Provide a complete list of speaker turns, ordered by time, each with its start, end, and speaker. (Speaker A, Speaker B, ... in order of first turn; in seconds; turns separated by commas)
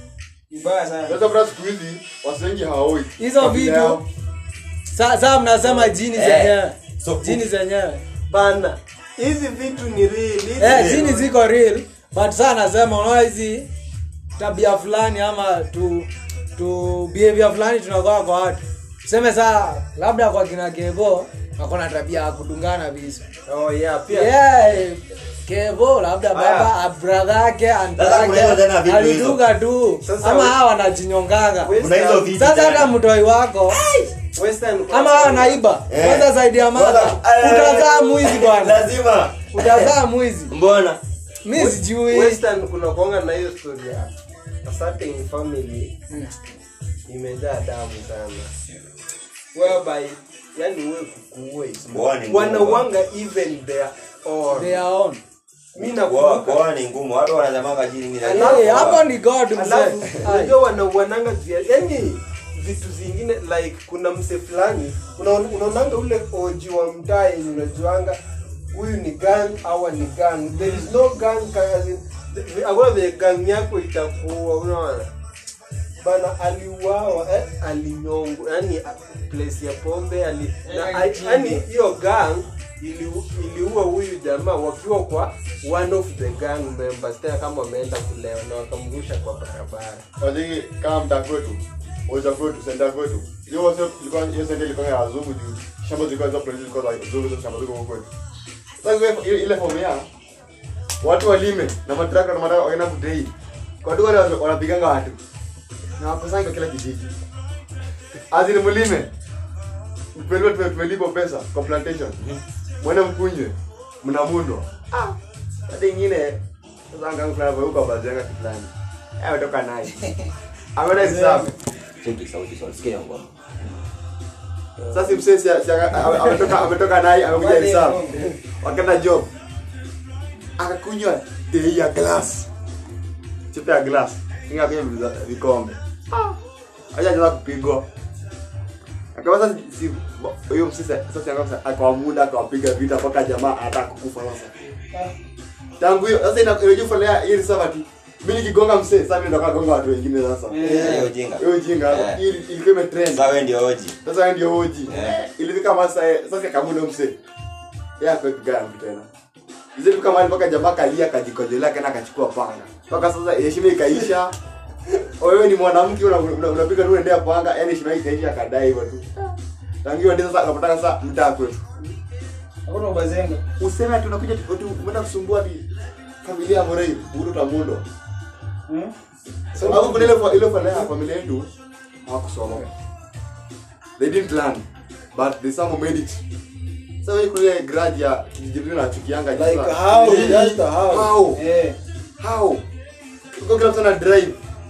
Speaker A: 0.5-1.2, Speaker B: 1.1-4.0, Speaker C: 3.2-4.0, Speaker C: 4.9-8.0, Speaker D: 6.1-7.4, Speaker E: 8.3-11.3, Speaker C: 10.6-13.7, Speaker D: 10.6-11.0, Speaker C: 14.4-23.2, Speaker E: 23.5-24.4, Speaker C: 24.1-31.8, Speaker E: 26.3-26.7, Speaker D: 28.0-29.4, Speaker E: 30.0-30.6, Speaker E: 31.6-32.3, Speaker D: 31.8-33.0, Speaker C: 32.3-33.8, Speaker D: 33.7-34.1, Speaker E: 34.4-35.6, Speaker C: 34.9-38.8, Speaker D: 35.9-39.9, Speaker C: 39.5-40.5, Speaker D: 40.5-41.0, Speaker C: 41.4-42.4, Speaker E: 41.5-44.1, Speaker E: 44.6-45.9, Speaker E: 47.1-48.5, Speaker E: 49.5-54.8, Speaker D: 51.9-52.9, Speaker C: 54.5-55.2, Speaker E: 55.7-56.6, Speaker D: 55.8-59.0, Speaker E: 58.2-59.0, Speaker C: 58.3-60.6, Speaker E: 59.5-68.2, Speaker E: 68.7-75.1, Speaker E: 76.0-90.0, Speaker A: 80.7-81.6, Speaker B: 90.2-98.1, Speaker B: 98.8-100.1, Speaker B: 101.0-103.3, Speaker B: 103.8-105.2, Speaker B: 106.0-107.1, Speaker B: 108.3-109.1, Speaker B: 110.2-112.2, Speaker B: 112.8-115.2, Speaker B: 115.7-116.4, Speaker B: 116.9-120.0, Speaker B: 120.8-121.5, Speaker A: 121.0-121.5, Speaker D: 122.0-123.3, Speaker B: 124.9-129.3, Speaker A: 127.3-128.2, Speaker B: 130.6-132.5, Speaker B: 133.5-136.4, Speaker B: 136.9-137.8, Speaker B: 139.2-144.5, Speaker B: 145.8-153.2, Speaker A: 150.5-151.1, Speaker D: 150.6-152.2, Speaker D: 153.1-154.0, Speaker B: 154.0-157.1, Speaker D: 154.9-155.2, Speaker B: 158.0-159.1, Speaker B: 159.8-164.3, Speaker B: 165.2-171.6, Speaker A: 172.7-173.4, Speaker B: 173.6-175.6, Speaker B: 176.2-177.8, Speaker E: 179.5-180.2, Speaker B: 179.6-181.5, Speaker B: 182.1-182.7, Speaker B: 184.0-186.2, Speaker B: 187.0-191.4, Speaker E: 189.3-191.2, Speaker A: 191.3-191.8, Speaker B: 192.2-192.6, Speaker B: 193.3-194.4